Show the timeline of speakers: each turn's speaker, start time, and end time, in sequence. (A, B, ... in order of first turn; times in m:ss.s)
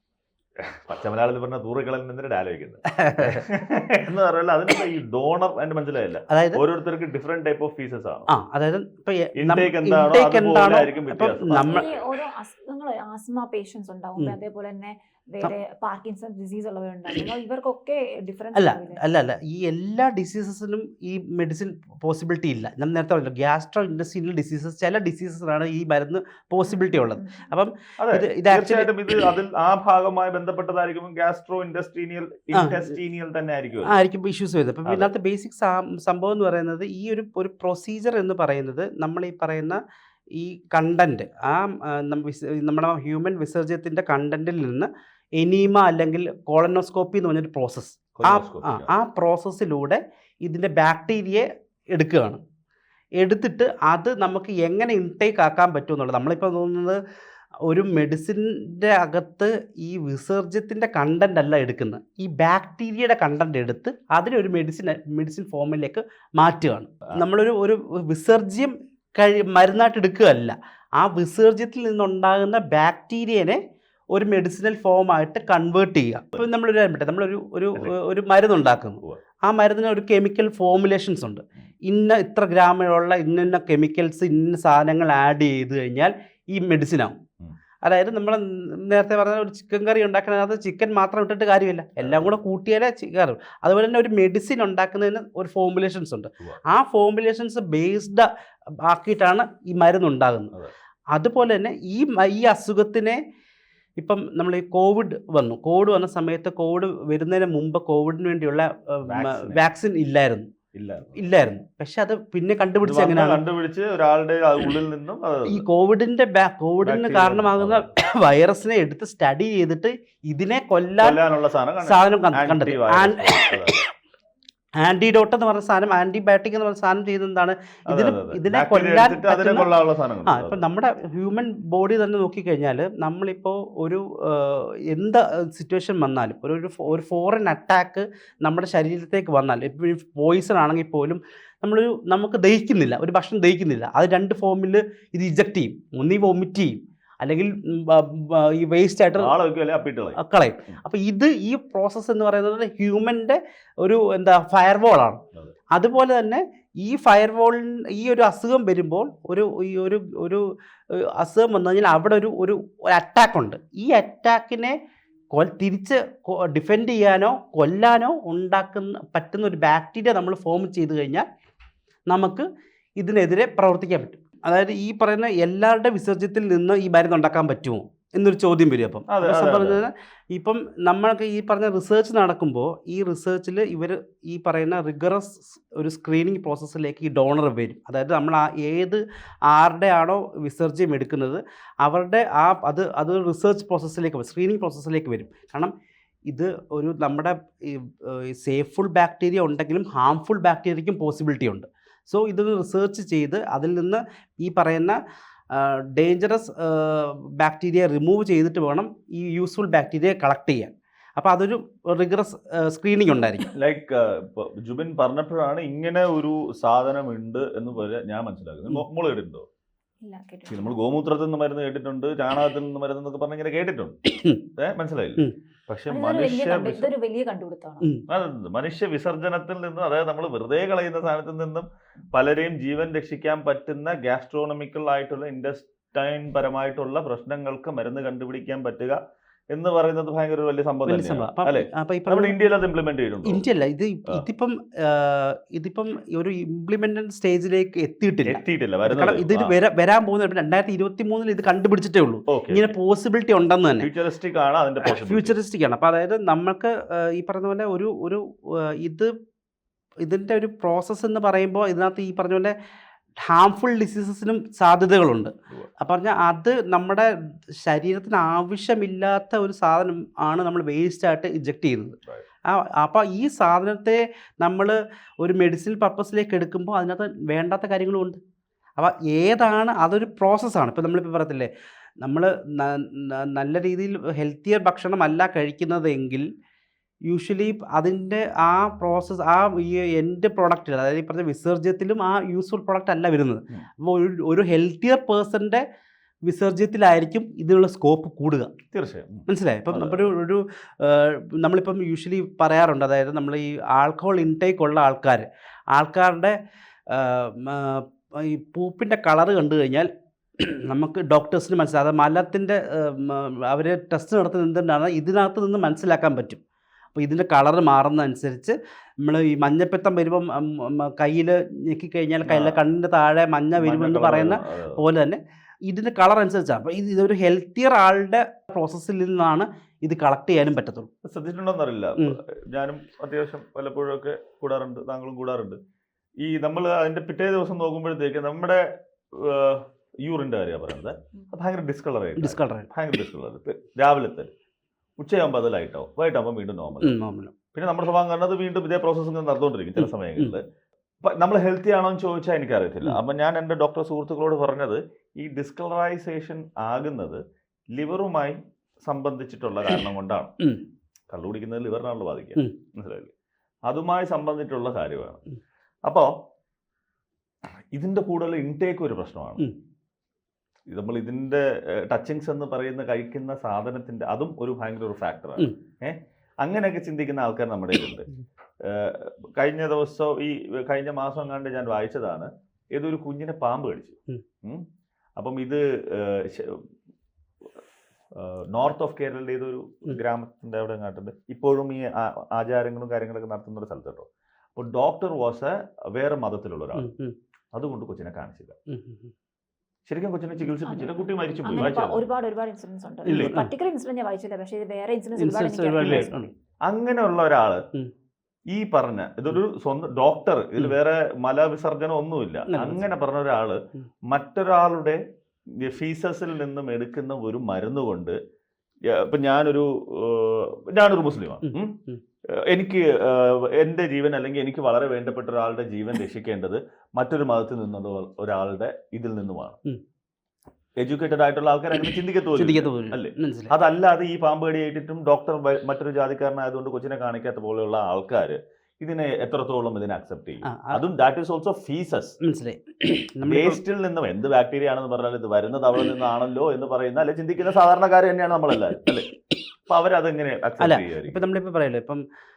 0:00.6-0:08.3 A
0:03.0-0:03.4 B
0:06.3-0:06.6 B
0:08.3-0:11.8 B
0:09.4-0:12.1 A
0:11.7-0:19.0 C
0:18.5-0:29.2 B
0:26.6-0:27.5 C
0:28.0-0:34.0 A
0:33.8-0:39.8 B
0:34.8-0:35.1 A
0:40.3-0:52.4 B
0:48.2-0:48.9 A
0:53.2-0:57.0 B
0:57.7-1:13.6 B
1:14.1-1:27.2 B
1:27.8-1:38.3 B
1:32.0-1:32.4 A
1:38.8-1:40.5 B
1:41.1-1:43.2 B
1:44.0-1:50.5 B
1:49.0-1:49.6 A
1:50.7-1:51.2 A
1:51.1-1:53.4 B
1:52.8-1:55.6 A
1:55.5-2:01.2 B
1:56.8-1:57.9 A
2:01.0-2:03.8 A
2:01.8-2:03.6 B
2:04.8-2:09.7 B
2:07.9-2:10.6 A
2:10.3-2:29.3 B
2:29.2-2:30.8 A
2:30.2-2:35.2 B
2:35.7-2:44.8 B
2:45.3-2:51.2 B
2:52.1-2:52.4 B
2:53.0-3:15.7 B
2:59.1-2:59.8 A
3:16.3-3:25.0 B
3:25.5-3:33.5 B
3:33.6-3:39.4 A
3:40.0-3:40.8 C
3:40.5-3:44.0 A
3:44.1-3:44.4 B
3:44.6-3:46.9 A
3:45.9-3:47.9 C
3:48.1-3:59.0 A
3:59.5-4:03.4 A
4:00.9-4:02.4 B
4:03.2-4:13.9 B
4:08.2-4:09.5 A
4:12.3-4:12.7 A
4:13.8-4:15.4 A
4:14.8-4:19.1 B
4:20.0-4:22.5 B
4:23.3-4:38.2 B
4:38.8-4:41.5 B
4:42.0-4:46.3 B
4:47.1-4:55.6 B
4:56.2-4:58.5 B
4:58.7-5:00.1 A
4:59.3-5:06.4 B
5:06.9-5:16.4 B
5:16.9-5:30.9 B
5:22.2-5:22.6 A
5:23.6-5:24.8 A
5:31.0-5:35.6 A
5:36.2-5:38.6 A
5:39.1-5:44.3 A
5:42.2-5:42.7 B
5:45.0-5:47.0 A
5:46.8-5:47.3 B
5:47.5-5:50.4 A
5:49.8-5:50.4 B
5:51.0-5:57.2 A
5:57.7-6:00.4 A
6:01.1-6:03.1 A
6:03.6-6:05.2 A
6:05.8-6:06.1 A
6:07.7-6:09.4 A
6:10.7-6:18.1 A
6:18.6-6:24.6 A
6:25.2-6:26.6 A
6:28.1-6:36.9 A
6:36.8-6:37.1 B
6:37.5-6:38.5 A
6:38.7-6:39.1 B
6:39.9-6:42.0 A
6:40.6-6:46.3 C
6:43.0-6:43.4 A
6:43.0-6:43.5 B
6:45.2-6:46.3 B
6:45.8-6:46.1 A
6:46.6-6:47.6 A
6:48.5-6:55.0 A
6:52.5-6:52.9 B
6:55.6-6:58.2 A
6:58.9-7:01.7 A
7:01.5-7:02.0 B
7:02.5-7:09.6 A
7:10.8-7:22.2 A
7:12.4-7:13.5 B
7:20.5-7:20.8 B
7:22.2-7:23.6 B
7:23.2-7:29.1 A
7:29.7-7:31.2 A
7:30.6-7:32.0 B